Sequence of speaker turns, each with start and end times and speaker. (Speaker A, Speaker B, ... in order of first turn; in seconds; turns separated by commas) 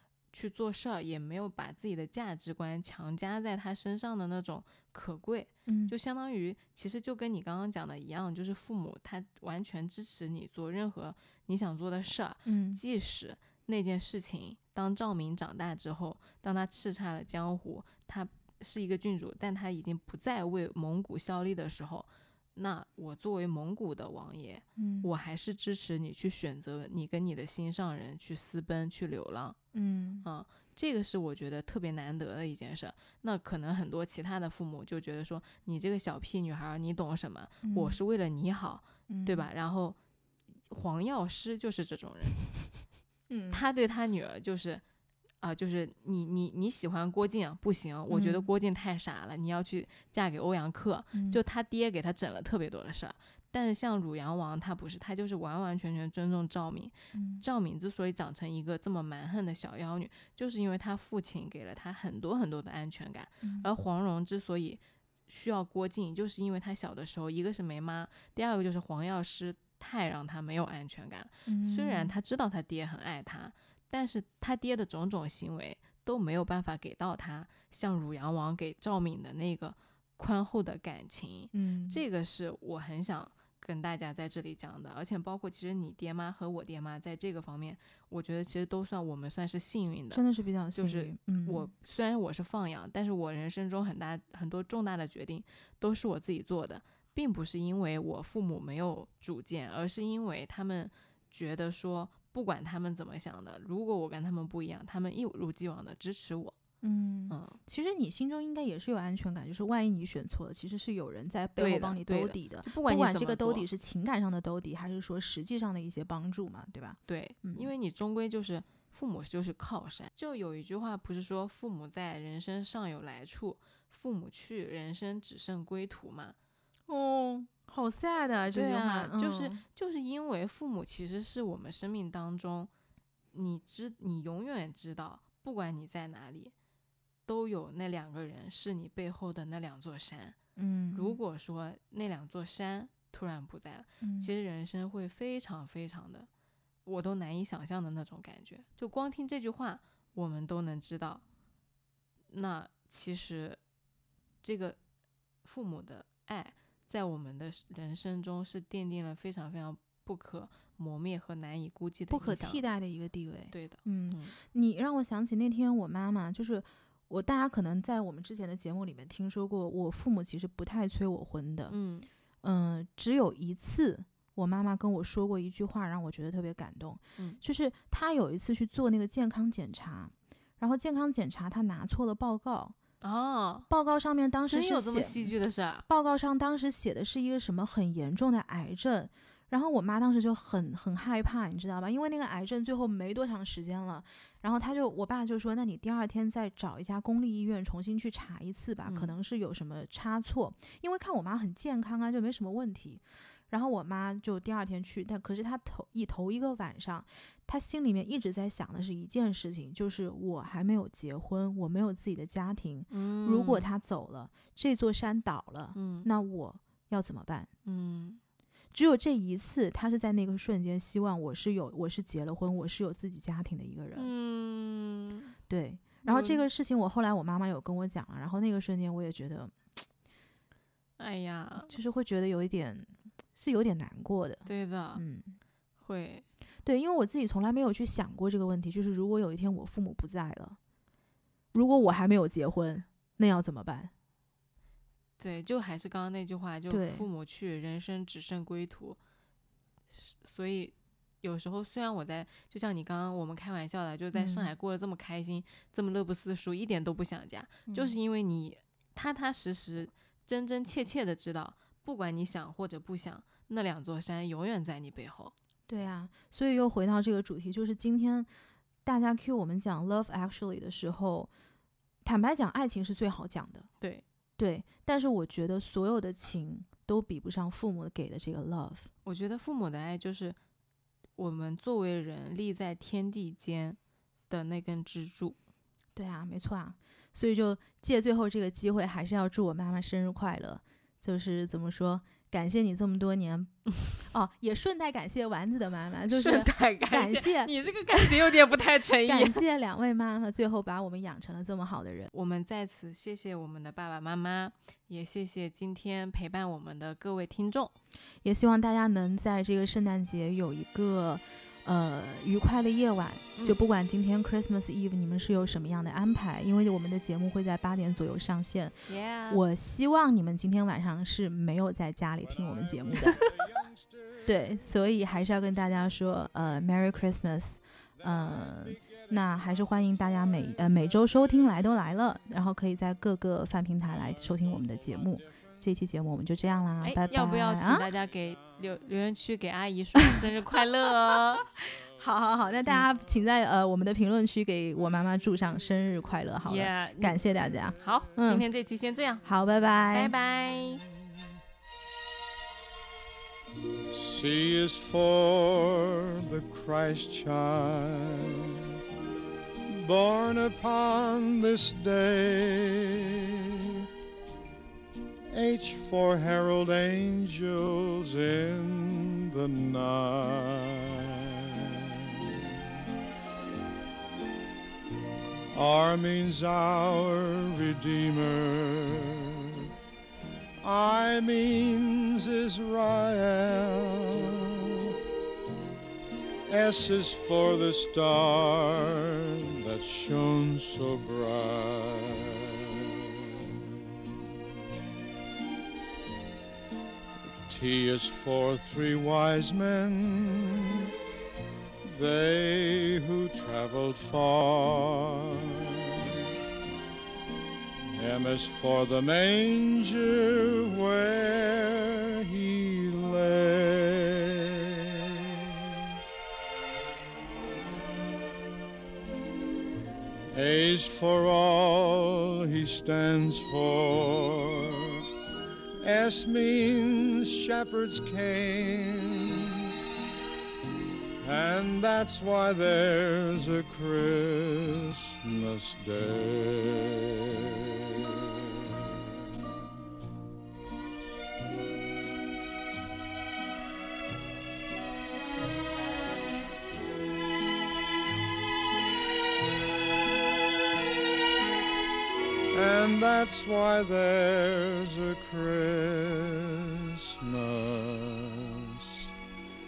Speaker A: 0.3-29.6, Speaker B: 5.7-5.9, Speaker B: 12.5-12.8, Speaker B: 24.8-25.1, Speaker B: 29.7-30.2, Speaker A: 30.2-40.0, Speaker B: 37.6-38.0, Speaker B: 39.1-39.5, Speaker A: 40.7-42.4, Speaker B: 43.3-43.6, Speaker A: 43.5-44.8, Speaker A: 45.4-90.2, Speaker B: 48.1-48.5, Speaker B: 51.1-51.4, Speaker B: 57.1-57.4, Speaker B: 63.4-63.7, Speaker B: 71.5-72.2, Speaker B: 81.5-82.0, Speaker B: 90.1-91.7, Speaker A: 90.8-106.6, Speaker B: 106.8-117.7, Speaker A: 107.3-107.6, Speaker A: 111.6-113.7, Speaker A: 117.1-126.3, Speaker B: 126.9-129.6, Speaker A: 128.5-132.7, Speaker A: 133.3-136.5, Speaker A: 137.3-140.4, Speaker B: 140.6-141.2, Speaker A: 140.9-146.3, Speaker B: 144.0-144.3, Speaker A: 146.8-151.2, Speaker A: 152.3-153.6, Speaker A: 154.4-154.8, Speaker A: 155.4-162.6, Speaker B: 162.1-171.8, Speaker A: 163.5-164.4, Speaker A: 171.7-172.1, Speaker B: 172.4-182.8, Speaker A: 183.0-183.7, Speaker B: 183.7-185.3, Speaker A: 184.5-185.9, Speaker B: 185.9-217.5, Speaker A: 198.9-199.2, Speaker A: 212.9-213.7, Speaker A: 215.8-216.1, Speaker A: 217.7-218.2, Speaker B: 218.7-224.1, Speaker A: 224.0-225.4, Speaker B: 225.5-229.6, Speaker A: 226.1-226.4, Speaker A: 231.0-231.7, Speaker B: 231.7-235.4, Speaker A: 234.5-235.0, Speaker A: 235.8-236.2, Speaker B: 236.6-240.6, Speaker B: 241.5-243.9, Speaker A: 245.2-249.0, Speaker B: 246.7-247.1, Speaker A: 249.9-265.3, Speaker B: 254.1-254.5, Speaker B: 257.7-258.0, Speaker B: 265.7-268.3, Speaker B: 268.9-271.3, Speaker B: 272.0-273.7, Speaker A: 273.8-274.0, Speaker B: 274.4-278.9, Speaker A: 279.1-280.4, Speaker A: 281.2-283.8, Speaker A: 284.3-285.4, Speaker B: 286.0-297.5, Speaker A: 296.1-299.4, Speaker B: 299.1-302.1, Speaker A: 302.1-307.7, Speaker B: 308.2-318.8, Speaker A: 318.9-319.4, Speaker B: 319.3-323.3, Speaker C: 323.2-323.7, Speaker B: 324.2-337.9, Speaker A: 336.8-341.4, Speaker B: 341.6-348.5, Speaker A: 346.4-347.2, Speaker A: 347.8-349.3, Speaker B: 349.2-350.1, Speaker A: 349.9-350.8, Speaker C: 353.9-358.6, Speaker C: 359.7-363.8, Speaker C: 365.3-372.4, Speaker C: 375.5-379.7, Speaker C: 380.6-385.0, Speaker C: 386.5-394.1, Speaker C: 397.5-400.9, Speaker C: 401.8-406.1, Speaker C: 408.0-415.8, Speaker C: 420.3-425.1, Speaker C: 425.8-429.7, Speaker C: 431.2-438.9, Speaker C: 452.5-459.1